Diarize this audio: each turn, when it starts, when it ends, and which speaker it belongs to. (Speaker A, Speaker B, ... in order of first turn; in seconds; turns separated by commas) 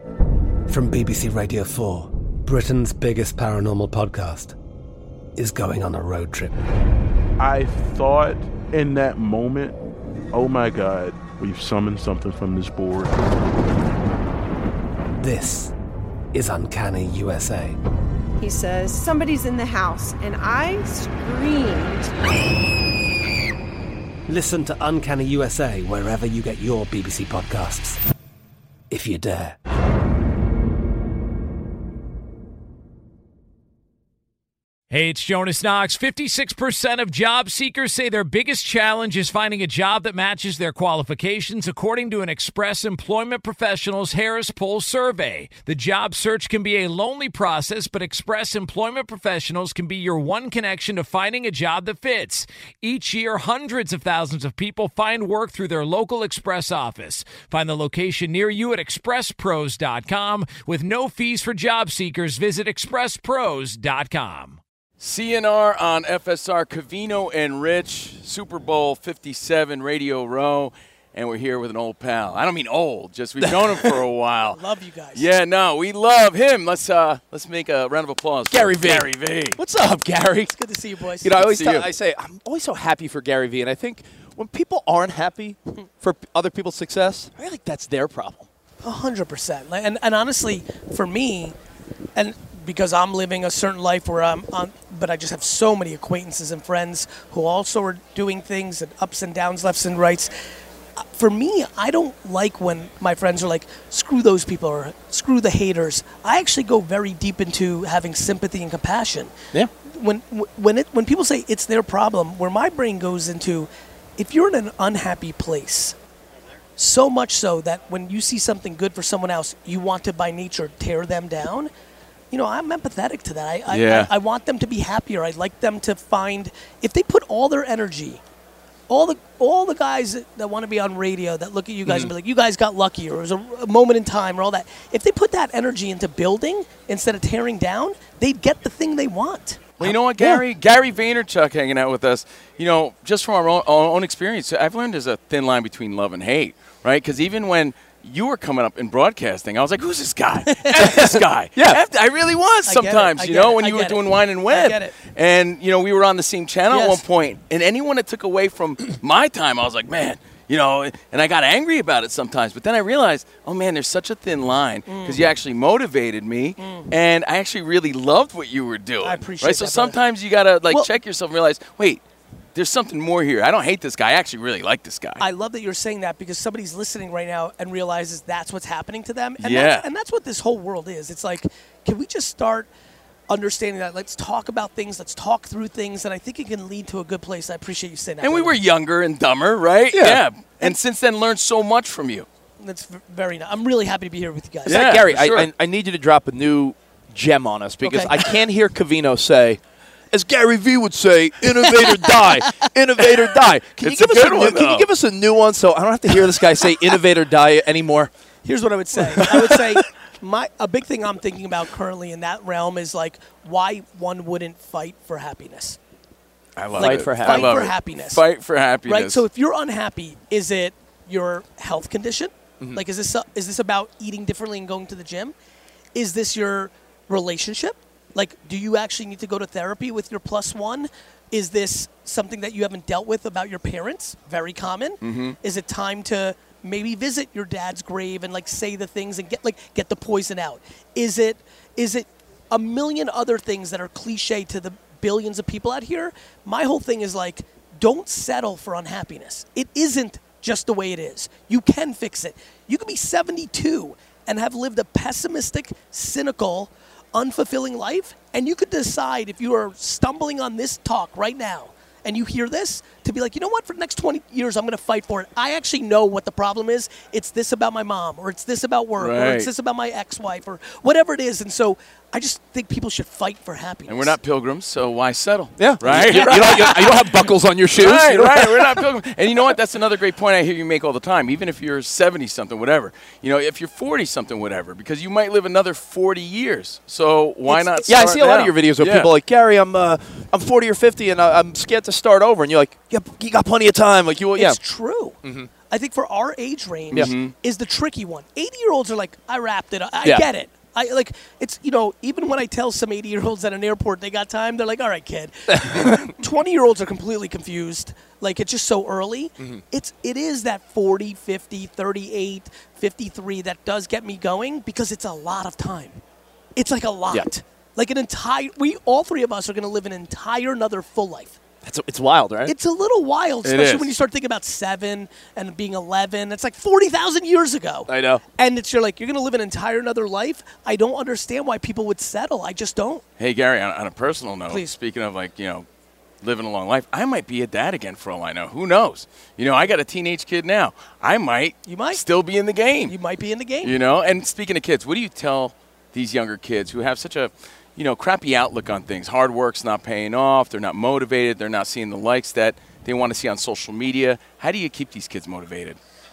Speaker A: 0.7-4.5, Speaker A: 5.3-6.5, Speaker B: 7.4-9.8, Speaker B: 10.3-13.2, Speaker A: 15.2-15.7, Speaker A: 16.3-17.8, Speaker C: 18.4-22.1, Speaker A: 24.3-28.0, Speaker A: 28.9-29.6, Speaker D: 34.9-64.6, Speaker E: 65.0-74.6, Speaker F: 73.4-73.9, Speaker G: 74.5-75.3, Speaker E: 75.1-79.6, Speaker F: 78.5-80.5, Speaker G: 80.5-81.4, Speaker F: 81.2-88.5, Speaker E: 81.4-81.9, Speaker G: 88.8-91.6, Speaker G: 92.2-100.3, Speaker G: 101.0-116.0, Speaker G: 116.8-121.7, Speaker G: 122.3-128.2, Speaker E: 123.7-124.1, Speaker G: 128.9-139.7, Speaker F: 131.8-132.1, Speaker E: 139.8-172.0, Speaker F: 139.8-140.4, Speaker G: 150.4-150.9, Speaker F: 150.9-151.8, Speaker G: 152.6-154.9, Speaker G: 156.7-157.0, Speaker G: 164.8-165.3, Speaker G: 166.6-166.9, Speaker G: 169.0-170.0, Speaker E: 172.5-175.2, Speaker G: 175.2-182.7, Speaker E: 179.4-179.8, Speaker G: 183.3-188.6, Speaker E: 188.2-192.3, Speaker F: 189.9-190.2, Speaker G: 192.6-195.0, Speaker E: 194.7-195.5, Speaker F: 194.7-199.6, Speaker G: 197.8-198.3, Speaker F: 200.1-208.1, Speaker E: 203.8-204.9, Speaker G: 208.4-215.8, Speaker E: 216.6-219.2, Speaker F: 216.7-217.7, Speaker G: 216.7-218.2, Speaker G: 218.8-225.3, Speaker F: 222.6-222.8, Speaker G: 225.9-274.2, Speaker E: 235.0-235.3, Speaker E: 269.0-269.5, Speaker E: 273.9-277.1, Speaker F: 275.6-278.8, Speaker G: 275.9-276.3, Speaker E: 277.8-289.1, Speaker G: 287.4-288.0, Speaker F: 287.8-294.6, Speaker G: 294.3-316.0, Speaker F: 295.2-295.5, Speaker E: 296.9-297.3, Speaker F: 300.0-300.3, Speaker F: 305.5-306.0, Speaker G: 316.6-321.4, Speaker F: 321.6-322.5, Speaker G: 322.4-333.0, Speaker E: 323.4-324.0, Speaker F: 327.9-328.2, Speaker E: 333.2-335.6, Speaker E: 336.2-342.9, Speaker G: 341.6-342.0, Speaker G: 342.8-343.8, Speaker E: 343.6-355.8